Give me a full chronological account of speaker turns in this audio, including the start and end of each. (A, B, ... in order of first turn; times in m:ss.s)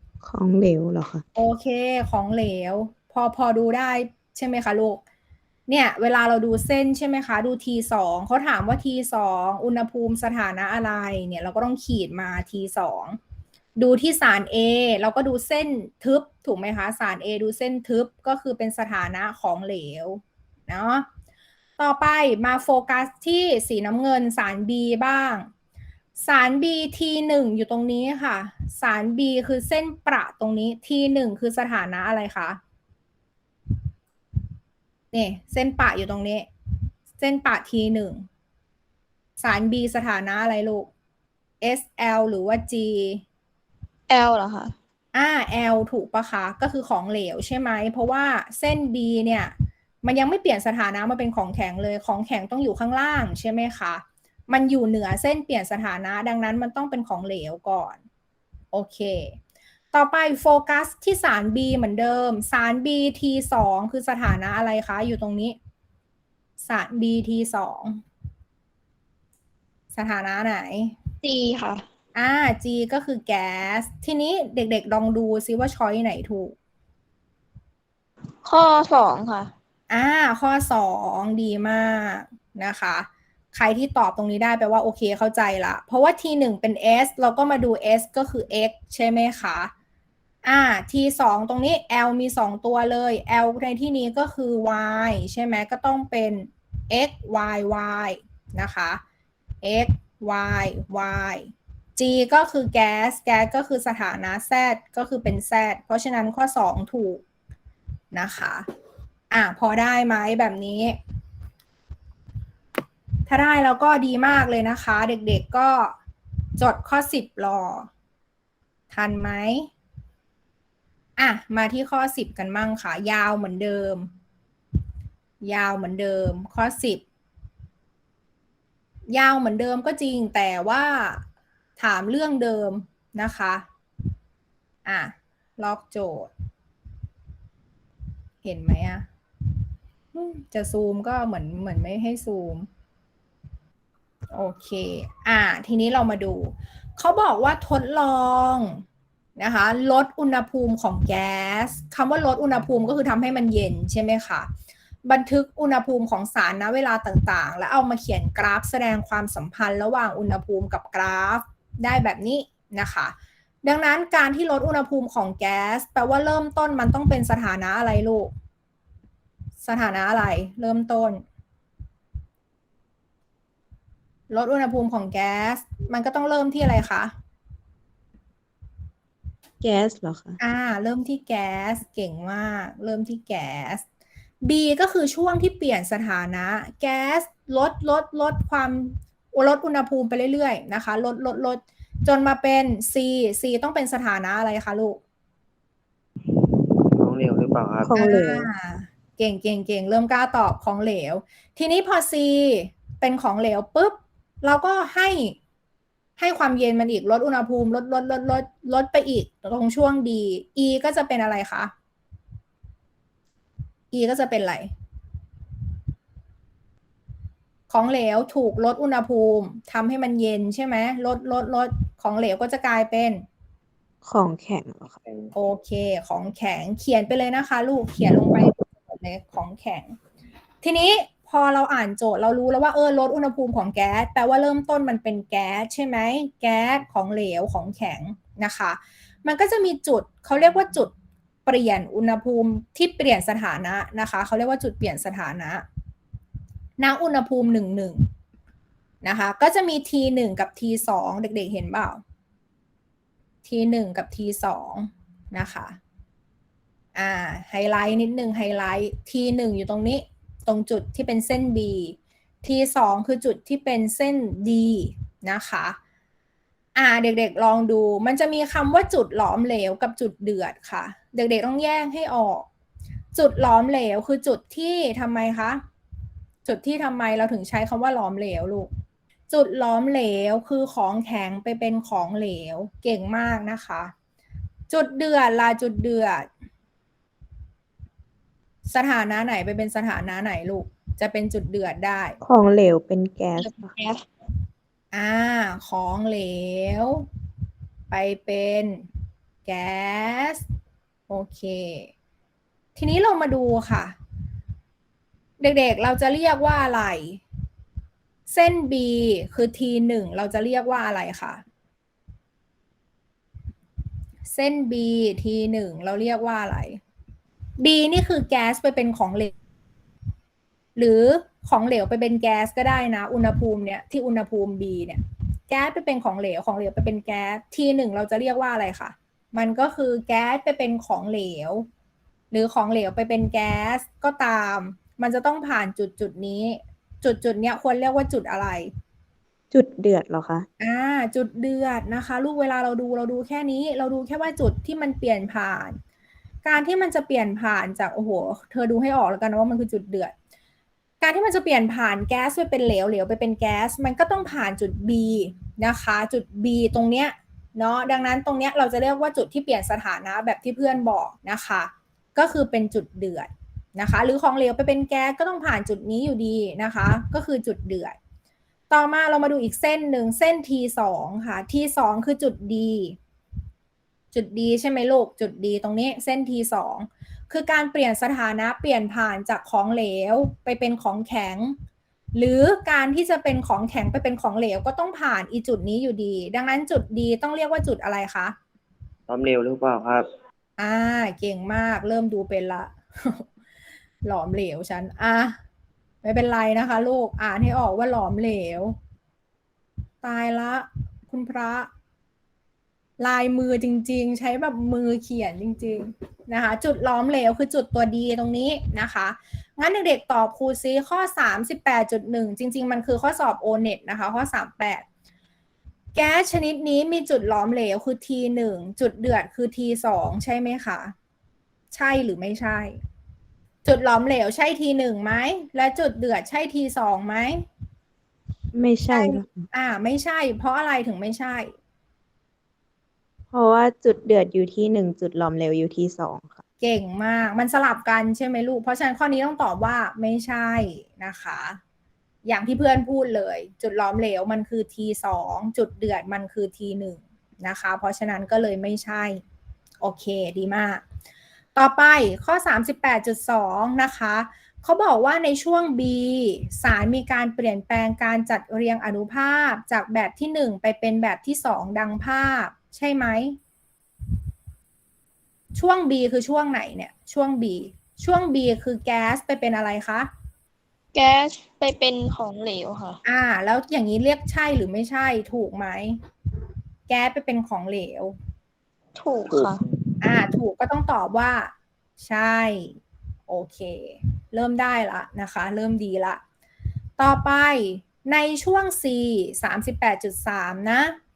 0:00.2-0:01.2 A
0:01.3-0:05.0 B
0:05.7-0:13.2 B
0:13.8-0:21.0 B
0:21.8-0:25.5 B
0:26.2-0:32.6 B
0:35.1-0:36.5 B
0:37.2-0:38.2 B
0:39.4-0:40.9 B
0:41.6-0:43.2 B
0:44.1-0:44.7 C
0:45.1-0:58.0 B
0:58.7-0:59.4 B
0:59.9-1:05.6 B
1:06.6-1:08.0 B
1:09.9-1:10.9 B
1:11.2-1:11.8 C
1:12.1-1:16.5 B
1:18.4-1:19.5 C
1:19.9-1:29.7 B
1:30.4-1:39.0 B
1:39.6-1:47.2 B
1:48.1-1:48.6 B
1:49.3-1:51.0 B
1:53.3-1:55.9 B
1:56.6-1:57.9 B
1:58.9-1:59.7 B
2:01.2-2:04.1 B
2:05.4-2:07.0 B
2:09.1-2:11.2 B
2:11.8-2:13.6 B
2:14.8-2:16.3 B
2:18.4-2:19.1 B
2:20.1-2:22.7 B
2:24.3-2:28.8 B
2:29.4-2:34.5 B
2:35.0-2:43.1 B
2:43.6-2:48.3 B
2:49.6-2:51.2 B
2:54.3-2:57.1 B
2:59.6-3:00.4 A
3:00.4-3:03.8 B
3:04.4-3:15.0 B
3:16.9-3:17.9 D
3:17.8-3:18.5 A
3:17.9-3:25.4 B
3:26.2-3:31.7 B
3:33.9-3:34.7 B
3:37.7-3:43.2 B
3:44.0-3:45.0 A
3:45.3-3:50.0 B
3:50.6-4:00.9 B
4:01.4-4:05.6 B
4:06.8-4:08.0 B
4:09.0-4:12.0 B
4:13.4-4:15.8 B
4:16.9-4:25.8 B
4:26.7-4:32.5 B
4:33.1-4:35.6 B
4:36.4-4:38.7 B
4:39.3-4:43.9 B
4:44.7-4:46.3 B
4:48.7-4:52.2 B
4:52.2-4:53.7 A
4:53.4-4:54.0 C
4:54.9-4:57.0 B
4:57.9-4:58.8 B
4:59.4-5:00.4 B
5:01.1-5:01.9 B
5:02.8-5:03.9 B
5:05.4-5:07.2 B
5:08.3-5:11.4 B
5:14.3-5:16.8 B
5:17.6-5:19.3 B
5:20.8-5:31.6 B
5:32.3-5:38.7 B
5:39.5-5:40.4 A
5:40.6-5:45.8 B
5:46.4-5:50.1 B
5:51.0-6:08.0 B
6:08.7-6:13.0 B
6:14.1-6:21.6 B
6:22.2-6:28.3 B
6:29.1-6:30.1 D
6:30.6-6:33.3 B
6:34.0-6:35.4 B
6:36.0-6:38.8 B
6:40.0-6:41.7 B
6:43.0-6:54.8 B
6:55.9-7:00.9 B
7:01.7-7:02.8 B
7:03.6-7:07.4 B
7:08.5-7:09.5 A
7:08.9-7:11.5 B
7:13.3-7:16.4 A
7:16.6-7:21.6 B
7:22.3-7:29.2 B
7:29.8-7:30.8 B
7:31.5-7:43.4 B
7:45.6-7:50.1 B
7:50.9-7:53.0 C
7:53.0-7:56.0 B
7:56.9-7:58.1 B
7:59.0-7:59.6 C
7:59.3-7:59.8 D
8:00.0-8:06.2 B
8:07.0-8:11.0 B